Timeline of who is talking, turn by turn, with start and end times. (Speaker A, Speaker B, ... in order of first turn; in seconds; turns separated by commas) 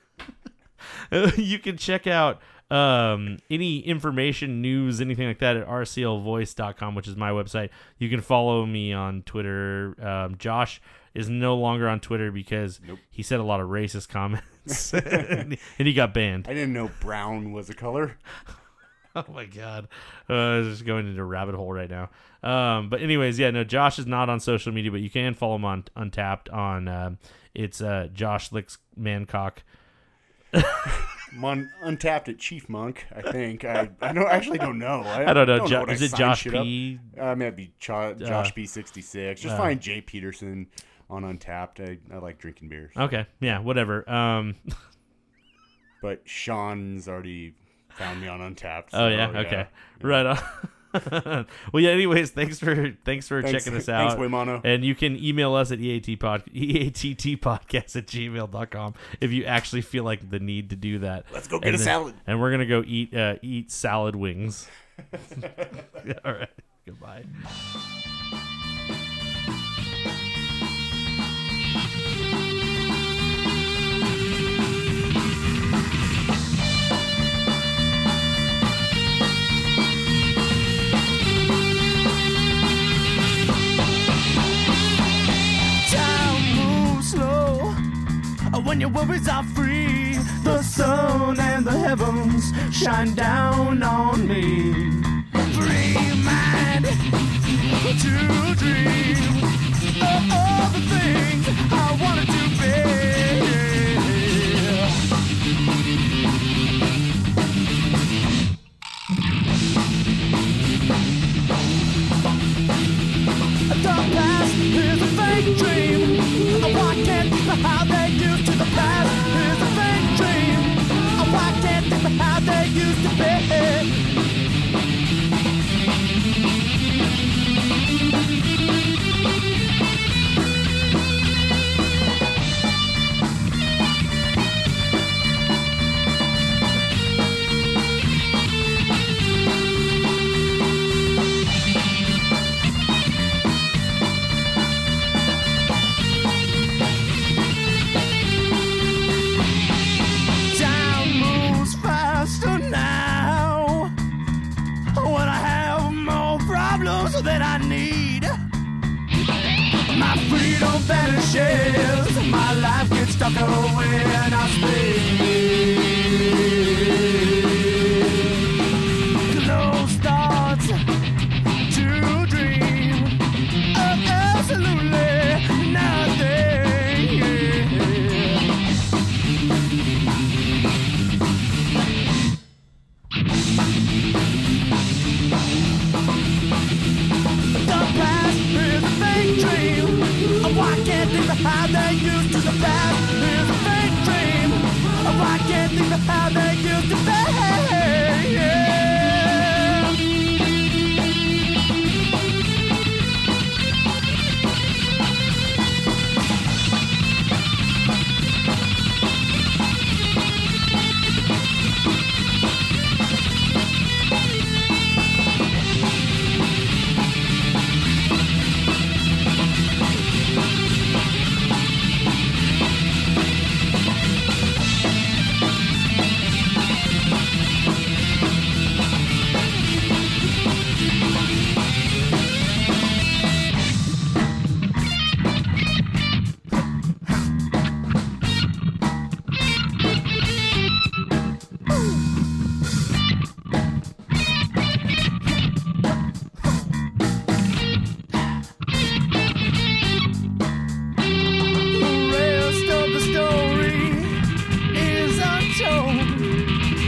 Speaker A: 1.1-16.5, Speaker B: 14.7-15.5, Speaker B: 16.4-18.2, Speaker A: 19.1-29.6, Speaker A: 30.5-31.0, Speaker B: 31.1-43.0, Speaker A: 35.2-37.1, Speaker A: 38.2-38.5, Speaker A: 39.5-39.7, Speaker A: 43.0-44.8, Speaker B: 46.0-50.2, Speaker A: 48.9-64.7, Speaker B: 53.4-54.6, Speaker B: 61.3-62.2, Speaker A: 65.9-67.3, Speaker C: 85.8-87.8, Speaker C: 88.5-105.0, Speaker C: 113.7-124.0, Speaker C: 150.5-153.9, Speaker C: 154.9-158.3, Speaker C: 159.9-168.5, Speaker C: 169.3-170.7, Speaker C: 171.7-173.2, Speaker C: 173.7-178.5, Speaker C: 187.6-200.0, Speaker C: 251.7-256.4